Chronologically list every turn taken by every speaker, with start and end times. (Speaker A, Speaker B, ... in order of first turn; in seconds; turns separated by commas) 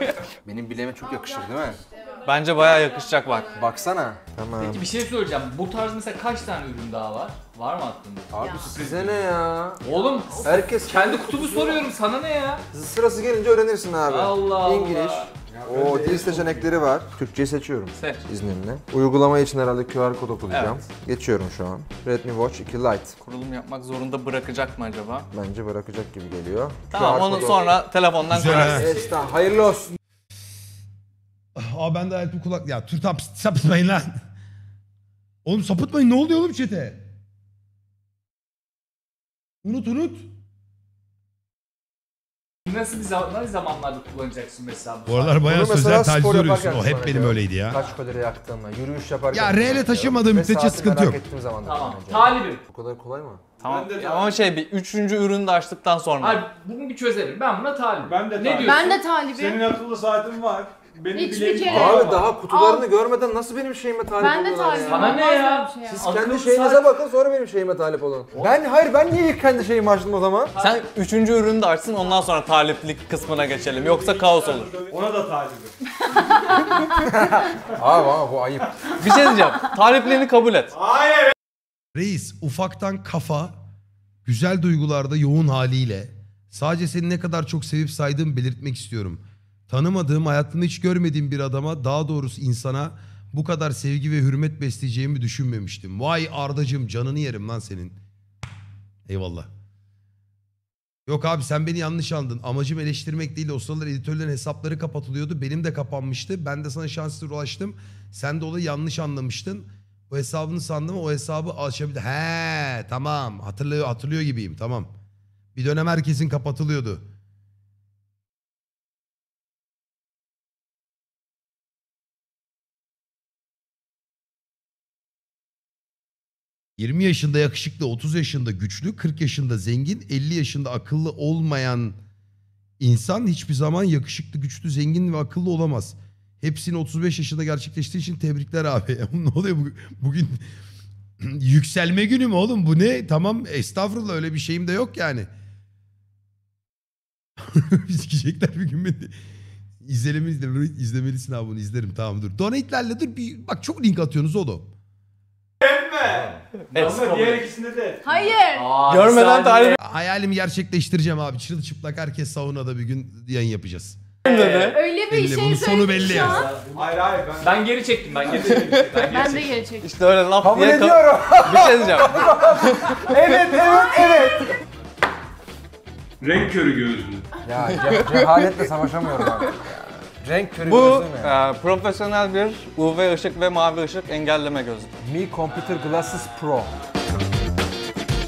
Speaker A: 0.4-1.8, Speaker B: 1.1-4.0, Speaker C: 2.2-3.6, Speaker A: 3.5-4.9, Speaker D: 4.6-8.2, Speaker A: 8.3-9.8, Speaker B: 8.4-8.7, Speaker E: 8.7-9.3, Speaker D: 9.8-12.6, Speaker A: 10.4-11.8, Speaker A: 12.7-23.1, Speaker D: 14.1-15.3, Speaker E: 15.6-16.7, Speaker D: 17.9-18.2, Speaker C: 20.5-20.8, Speaker C: 23.2-25.3, Speaker A: 25.3-27.7, Speaker C: 26.9-28.9, Speaker F: 28.3-28.9, Speaker A: 28.4-29.9, Speaker F: 31.5-34.2, Speaker F: 35.4-37.0, Speaker F: 39.6-40.3, Speaker D: 42.6-45.4, Speaker F: 45.0-47.8, Speaker A: 45.4-53.4, Speaker F: 49.3-51.2, Speaker D: 51.6-52.6, Speaker E: 53.6-54.4, Speaker C: 53.6-56.5, Speaker D: 56.2-58.9, Speaker E: 58.0-62.3, Speaker B: 58.6-59.7, Speaker B: 61.1-63.0, Speaker A: 61.7-65.2, Speaker B: 64.2-66.0, Speaker D: 64.8-66.9, Speaker A: 65.9-70.5, Speaker C: 70.6-74.8, Speaker E: 73.5-75.7, Speaker A: 77.0-78.8, Speaker C: 79.0-80.8, Speaker E: 80.8-81.3, Speaker F: 81.9-83.5, Speaker F: 84.2-98.0, Speaker F: 99.1-99.5, Speaker F: 101.1-114.9, Speaker F: 115.5-117.0, Speaker F: 126.8-132.0, Speaker F: 132.8-140.4, Speaker F: 141.2-145.3, Speaker F: 147.4-149.2, Speaker F: 149.8-154.7, Speaker E: 155.6-158.1, Speaker D: 156.7-157.4, Speaker C: 156.7-157.2, Speaker B: 158.0-158.7, Speaker D: 158.2-159.8, Speaker C: 158.9-159.8, Speaker F: 159.8-164.0, Speaker D: 164.2-164.8, Speaker C: 164.2-164.8, Speaker B: 164.3-166.5, Speaker F: 165.1-166.5, Speaker D: 166.1-166.7, Speaker E: 166.6-169.6, Speaker D: 167.4-169.4, Speaker C: 168.6-169.3, Speaker B: 169.0-169.9, Speaker C: 169.8-173.1, Speaker A: 170.4-174.5, Speaker E: 176.2-177.2, Speaker A: 177.4-179.6, Speaker A: 180.2-181.3, Speaker C: 180.6-184.9, Speaker A: 185.0-186.7